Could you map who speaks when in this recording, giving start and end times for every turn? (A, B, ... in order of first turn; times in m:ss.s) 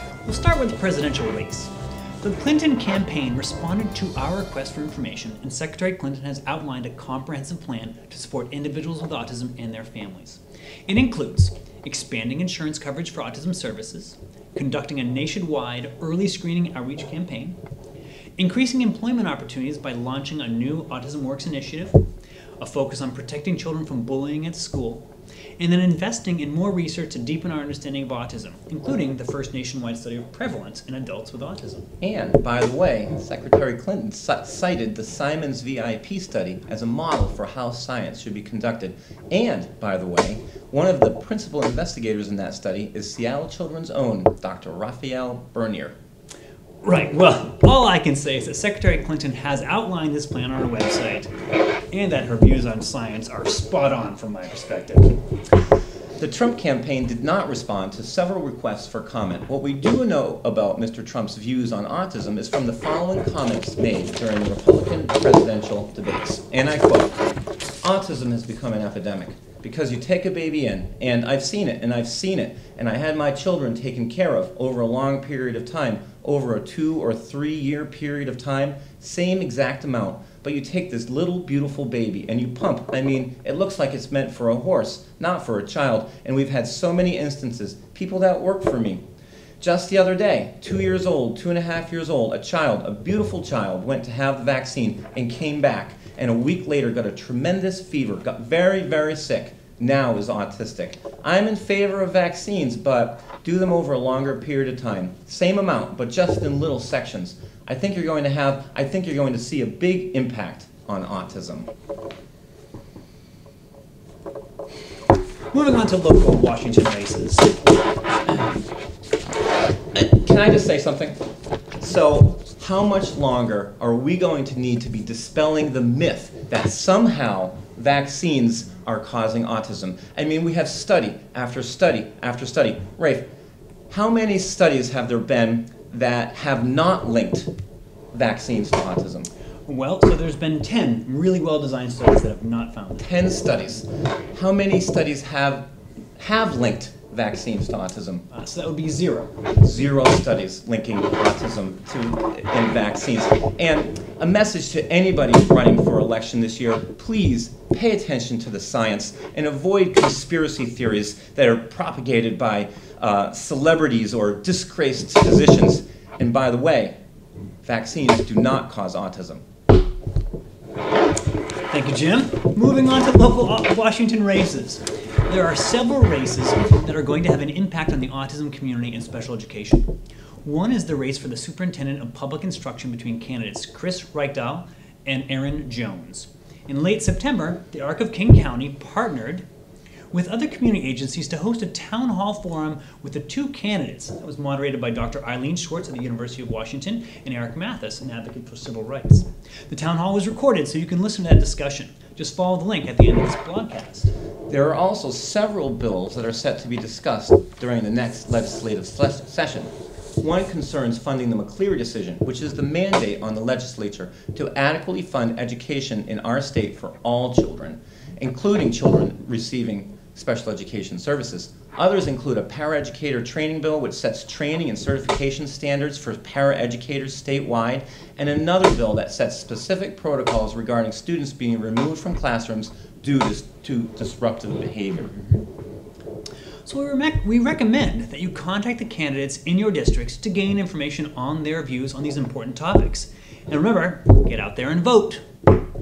0:00.2-0:17.6 A
0:18.4-0:22.0 A
0:22.6-0:25.0 A
0:25.6-0:31.9 A
0:32.0-0:46.0 B
0:46.8-0:51.3 A
0:51.9-0:55.2 A
0:56.2-1:07.2 B
1:07.8-1:29.0 B
1:29.6-1:51.7 B
1:55.5-1:57.6 A
1:59.9-2:01.2 B
2:01.8-2:13.2 B
2:13.9-2:17.5 B
2:18.1-2:19.3 B
2:19.7-2:23.1 A
2:23.0-2:25.7 B
2:26.2-2:28.2 B
2:28.3-2:29.3 A
2:29.6-2:47.0 B
2:47.6-2:49.4 B
2:51.7-2:59.9 A
3:00.4-3:09.4 A
3:10.1-3:24.1 A
3:24.5-3:55.2 B
3:55.1-3:55.4 A
3:56.6-4:05.2 A